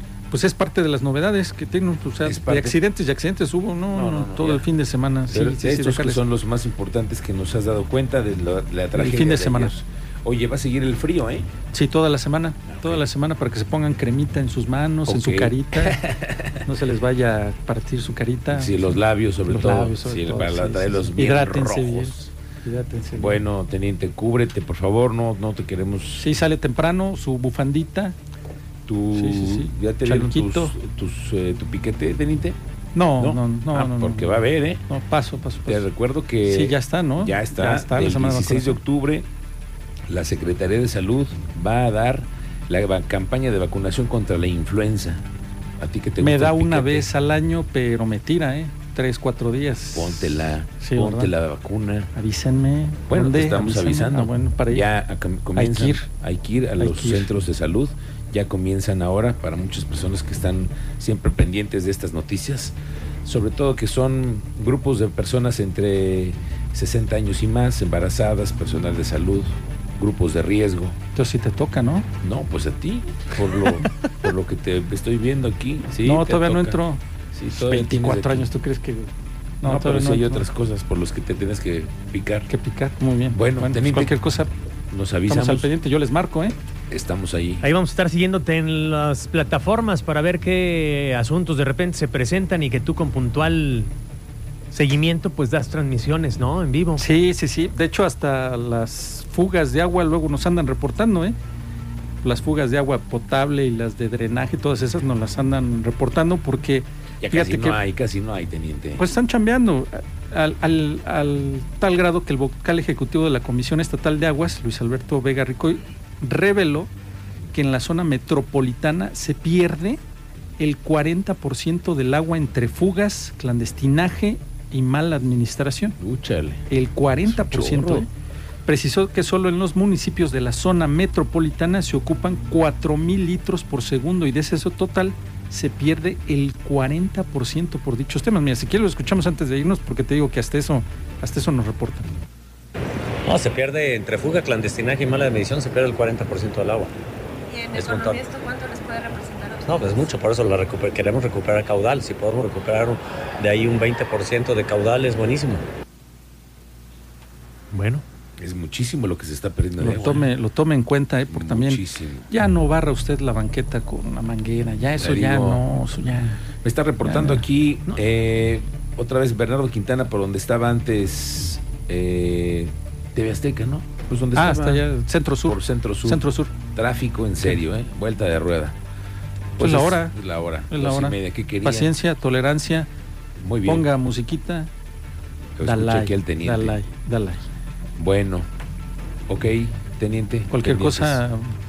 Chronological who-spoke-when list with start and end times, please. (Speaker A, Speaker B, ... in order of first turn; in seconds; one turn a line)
Speaker A: 0.3-6.2
Speaker B: 2.2-2.8
Speaker B: 3.9-4.7
Speaker B: 5.3-11.5
Speaker A: 8.9-9.7
Speaker A: 11.7-16.0
Speaker B: 12.7-13.1
Speaker B: 15.1-16.6
Speaker A: 16.6-23.4
Speaker B: 18.5-22.3
Speaker B: 23.1-26.3
Speaker A: 26.2-28.1
Speaker B: 28.9-32.6
Speaker A: 29.1-30.7
Speaker A: 32.9-34.3
Speaker B: 33.2-34.8
Speaker A: 34.9-35.9
Speaker B: 35.6-39.3
Speaker A: 36.4-38.8
Speaker B: 40.1-45.2
Speaker B: 45.8-47.1
Speaker A: 46.2-51.3
Speaker B: 49.9-52.1
Speaker A: 52.1-54.9
Speaker B: 53.1-71.0
Speaker A: 55.5-56.1
Speaker A: 56.8-57.3
Speaker A: 71.1-72.1
Speaker B: 72.2-76.8
Speaker A: 73.4-73.9
Speaker A: 76.0-77.0
Speaker B: 77.3-78.5
Speaker A: 77.5-80.5
Speaker B: 79.6-82.5
Speaker A: 82.5-84.5
Speaker B: 83.3-84.1
Speaker B: 84.9-85.7
Speaker A: 85.3-86.5
Speaker B: 86.9-87.7
Speaker C: 87.6-93.9
Speaker C: 94.7-97.0
Speaker A: 97.0-101.3
Speaker A: 102.2-107.8
Speaker B: 107.2-109.0
Speaker A: 109.0-116.9
Speaker A: 117.5-120.0
Speaker A: 120.6-126.0
Speaker B: 126.0-126.7
Speaker A: 126.7-128.1
Speaker B: 127.2-128.1
Speaker A: 128.7-142.1
Speaker D: 143.2-146.9
Speaker E: 147.5-150.2
Speaker D: 147.7-148.2
Speaker D: 149.7-155.6
Speaker C: 157.7-158.0
Speaker B: 158.4-160.3
Speaker A: 159.8-166.4
Speaker B: 161.3-162.3
Speaker B: 165.0-165.6
Speaker B: 166.6-174.8
Speaker A: 167.0-168.0
Speaker A: 174.3-176.5
Speaker B: 175.4-178.8
Speaker B: 179.6-181.9
Speaker A: 179.6-180.1
Speaker A: 180.7-182.9
Speaker B: 183.4-183.9
Speaker A: 183.6-184.7
Speaker B: 185.6-186.8
Speaker A: 185.6-187.5
Speaker B: 188.0-188.5
Speaker B: 189.3-191.2
Speaker A: 190.5-191.5